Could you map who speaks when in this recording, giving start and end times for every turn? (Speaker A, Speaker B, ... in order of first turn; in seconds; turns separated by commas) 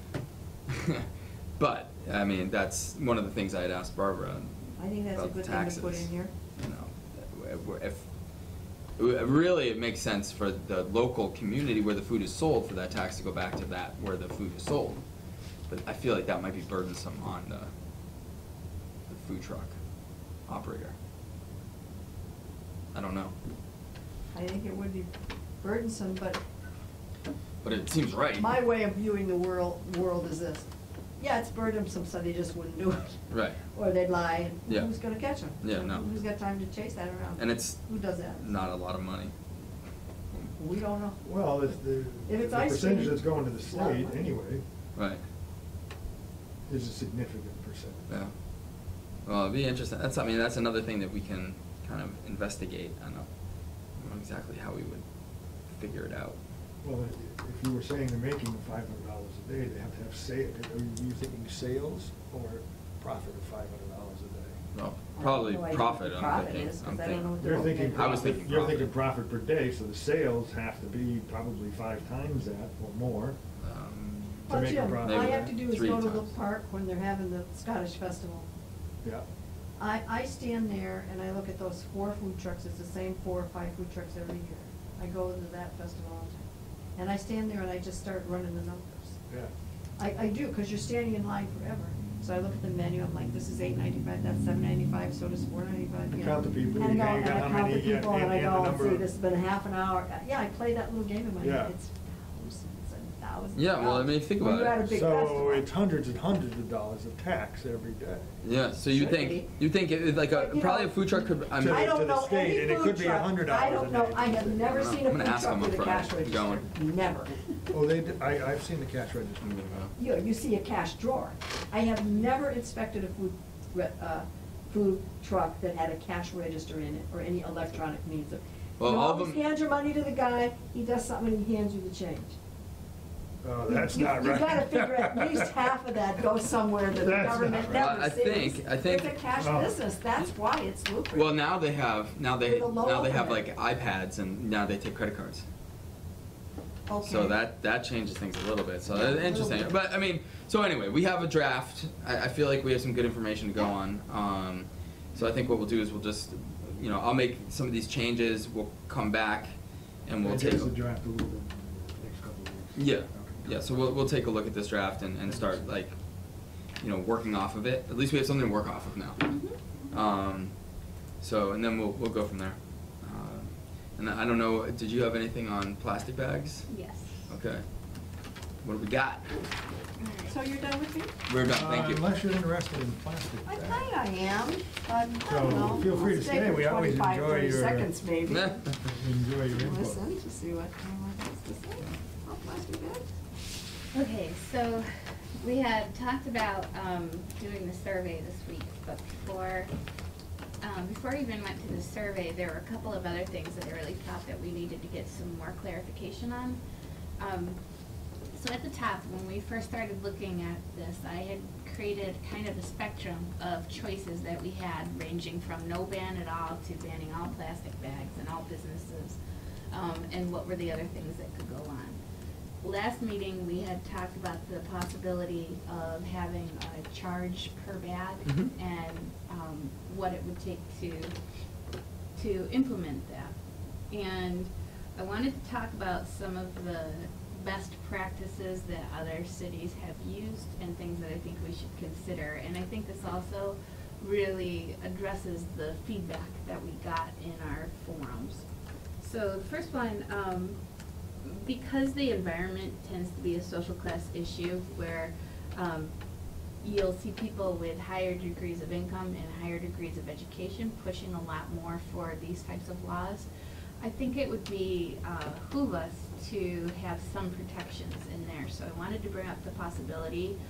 Speaker A: 0.7-8.0, Speaker B: 4.8-6.3, Speaker A: 9.0-15.0, Speaker A: 15.7-17.7, Speaker A: 19.1-19.8, Speaker A: 20.5-20.9, Speaker A: 22.9-23.3, Speaker B: 24.3-25.1, Speaker B: 25.6-26.4, Speaker A: 27.6-28.5, Speaker B: 28.4-30.7, Speaker B: 31.2-38.5, Speaker A: 33.3-33.6, Speaker A: 35.6-36.0, Speaker A: 37.4-39.3, Speaker B: 40.3-41.2, Speaker C: 41.2-44.6, Speaker B: 42.3-44.4, Speaker A: 45.0-45.2, Speaker C: 46.7-48.1, Speaker A: 49.2-53.3, Speaker A: 54.0-55.0, Speaker A: 55.7-56.4, Speaker C: 56.8-64.6, Speaker A: 64.7-68.9, Speaker B: 65.2-68.5, Speaker C: 67.4-73.4, Speaker A: 73.6-76.3, Speaker B: 74.5-78.5, Speaker C: 74.5-75.6, Speaker B: 79.8-89.2, Speaker B: 90.0-105.7, Speaker C: 96.2-99.1, Speaker C: 101.4-101.8, Speaker A: 103.5-104.8, Speaker C: 104.8-108.3, Speaker A: 108.4-111.9, Speaker B: 108.9-109.5, Speaker B: 110.3-117.3, Speaker C: 111.5-114.8, Speaker A: 114.7-116.7, Speaker C: 117.7-119.7, Speaker A: 119.4-119.9, Speaker B: 120.0-132.3, Speaker A: 128.8-129.4, Speaker C: 133.4-135.5, Speaker B: 133.6-141.3, Speaker C: 137.0-137.8, Speaker A: 137.7-139.2, Speaker C: 139.4-139.8, Speaker A: 141.1-145.4, Speaker B: 142.4-143.5, Speaker B: 146.9-147.4, Speaker A: 147.0-159.5, Speaker B: 148.9-149.8, Speaker A: 160.1-160.7, Speaker C: 160.2-163.6, Speaker A: 162.8-165.9, Speaker C: 165.3-165.6, Speaker A: 166.8-169.2, Speaker D: 169.2-170.0, Speaker A: 169.9-170.5, Speaker A: 171.2-176.7, Speaker D: 176.7-177.3, Speaker A: 177.3-177.7, Speaker A: 178.6-179.5, Speaker D: 180.0-180.4, Speaker B: 180.3-181.1, Speaker A: 181.3-182.0, Speaker C: 181.4-183.9, Speaker B: 183.5-188.7, Speaker C: 185.2-187.9, Speaker A: 188.3-188.7, Speaker C: 188.8-190.0, Speaker B: 189.5-193.1, Speaker D: 193.9-194.9, Speaker D: 195.4-199.7, Speaker D: 200.6-206.6, Speaker D: 207.2-207.6, Speaker D: 208.3-219.2, Speaker D: 219.7-222.0, Speaker D: 222.6-231.1, Speaker A: 228.3-228.5, Speaker D: 232.2-233.3, Speaker D: 233.9-248.4, Speaker D: 249.0-250.6, Speaker D: 251.2-255.9, Speaker D: 256.6-263.3, Speaker D: 263.8-270.4